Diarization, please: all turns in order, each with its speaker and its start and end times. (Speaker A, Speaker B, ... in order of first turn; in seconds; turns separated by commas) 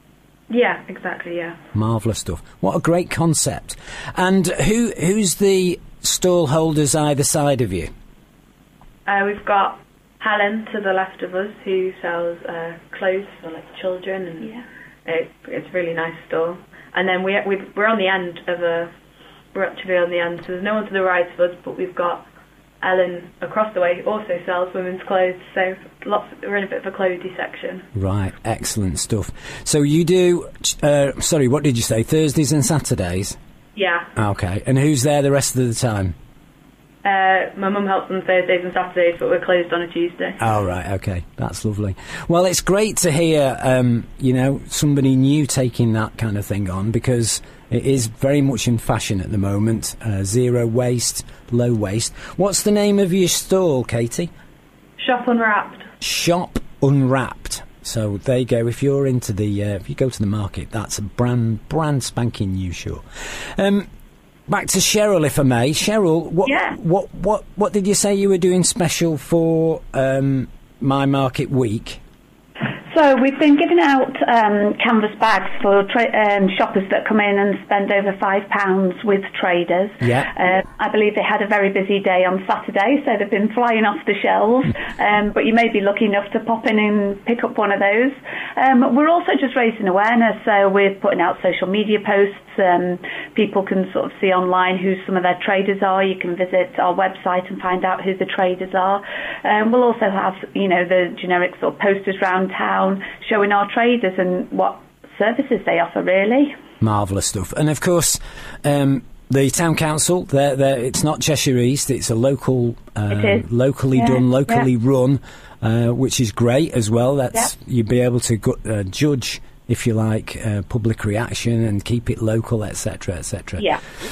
Speaker A: 0.5-1.6, Speaker B: 1.7-7.9, Speaker A: 9.1-18.9, Speaker A: 19.5-22.2, Speaker A: 22.8-27.9, Speaker B: 27.9-33.4, Speaker A: 33.7-34.1, Speaker B: 34.1-36.1, Speaker A: 37.0-40.4, Speaker B: 40.4-54.3, Speaker A: 55.0-55.9, Speaker B: 56.0-63.0, Speaker B: 63.6-63.9, Speaker B: 64.5-72.0, Speaker C: 66.5-66.8, Speaker C: 72.9-106.5, Speaker B: 80.0-80.3, Speaker B: 106.8-123.7, Speaker C: 113.1-113.4, Speaker C: 113.9-114.7